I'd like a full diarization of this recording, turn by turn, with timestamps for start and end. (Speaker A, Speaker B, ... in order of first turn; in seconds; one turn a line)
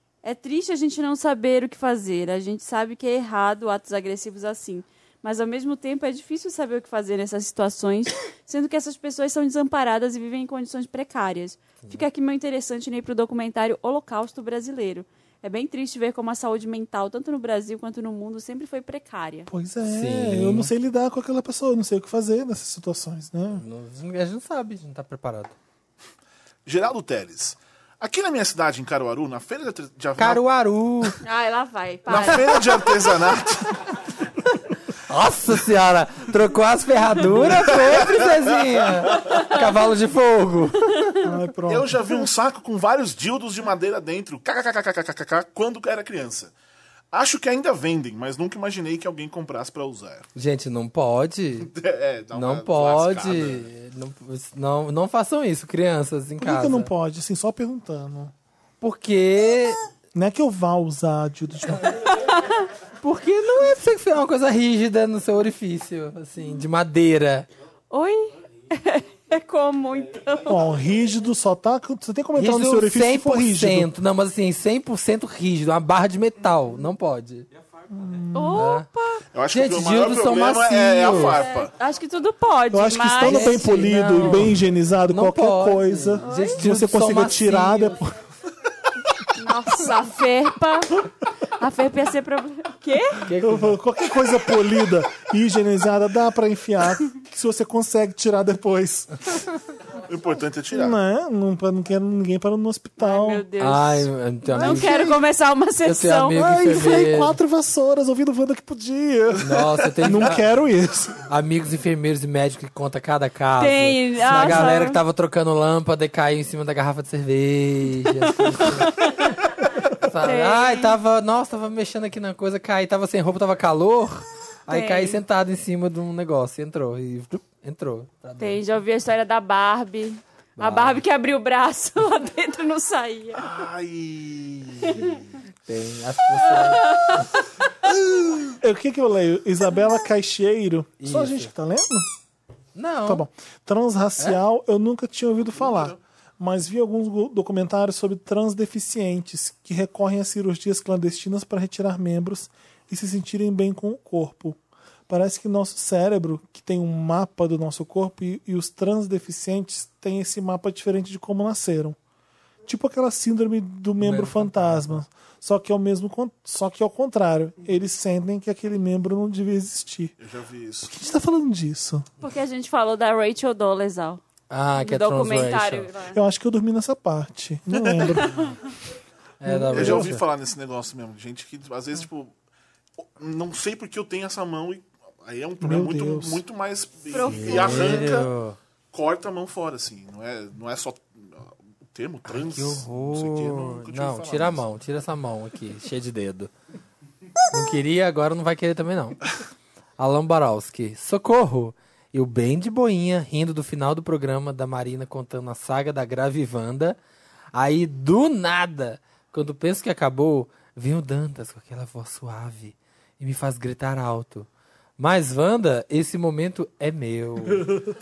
Speaker A: 0.2-19.5
Speaker B: 19.5-23.6
Speaker C: 19.9-20.7
Speaker C: 23.6-25.6
Speaker D: 26.6-30.4
Speaker C: 30.2-31.2
Speaker A: 31.2-32.9
Speaker D: 32.1-33.9
Speaker C: 35.0-41.0
Speaker D: 37.5-38.2
Speaker B: 41.2-42.0
Speaker D: 41.7-46.5
Speaker D: 47.1-50.3
Speaker C: 50.4-51.7
Speaker D: 51.6-53.7
Speaker C: 52.3-56.9
Speaker B: 56.4-58.3
Speaker C: 58.8-59.8
Speaker B: 60.1-62.1
Speaker A: 62.1-62.7
Speaker C: 63.0-67.5
Speaker A: 67.9-70.7
Speaker B: 70.5-73.9
Speaker C: 72.4-77.5
Speaker B: 77.9-78.7
Speaker A: 78.3-79.2
Speaker C: 78.5-78.9
Speaker D: 79.3-81.7
Speaker C: 79.5-81.4
Speaker A: 81.1-84.5
Speaker B: 82.7-88.2
Speaker C: 83.2-84.6
Speaker C: 85.1-88.0
Speaker A: 86.2-86.6
Speaker A: 89.3-93.3
Speaker C: 93.2-93.8
Speaker B: 93.4-99.5
Speaker D: 100.1-101.0
Speaker B: 100.7-103.5
Speaker A: 103.0-106.9
Speaker C: 103.6-105.2
Speaker B: 104.5-105.1
Speaker C: 105.8-107.4
Speaker B: 106.3-111.2
Speaker C: 109.4-110.5
Speaker C: 111.3-119.2
Speaker A: 113.6-115.0
Speaker A: 118.3-119.6
Speaker C: 119.9-128.6
Speaker A: 120.2-121.0
Speaker A: 124.7-125.2
Speaker A: 128.4-133.5
Speaker C: 130.6-131.0
Speaker D: 133.3-135.3
Speaker C: 135.7-137.2
Speaker A: 136.5-137.2
Speaker D: 137.9-138.6
Speaker B: 138.6-142.1
Speaker C: 141.0-141.5
Speaker C: 142.8-143.2
Speaker B: 143.1-154.6
Speaker D: 145.6-146.0
Speaker B: 155.1-162.0
Speaker B: 162.7-170.2
Speaker C: 164.0-165.0
Speaker D: 170.2-170.9
Speaker B: 170.9-172.1
Speaker A: 172.2-174.2
Speaker C: 174.5-175.9
Speaker A: 174.8-176.2
Speaker B: 176.1-178.3
Speaker D: 177.8-178.2
Speaker C: 179.4-180.2
Speaker B: 179.4-180.1
Speaker D: 179.7-182.3
Speaker D: 183.0-188.3
Speaker B: 185.6-186.4
Speaker A: 187.1-188.2
Speaker C: 187.2-188.6
Speaker D: 188.9-194.7
Speaker C: 192.3-196.5
Speaker C: 197.5-199.2
Speaker C: 200.0-207.0
Speaker C: 207.5-217.7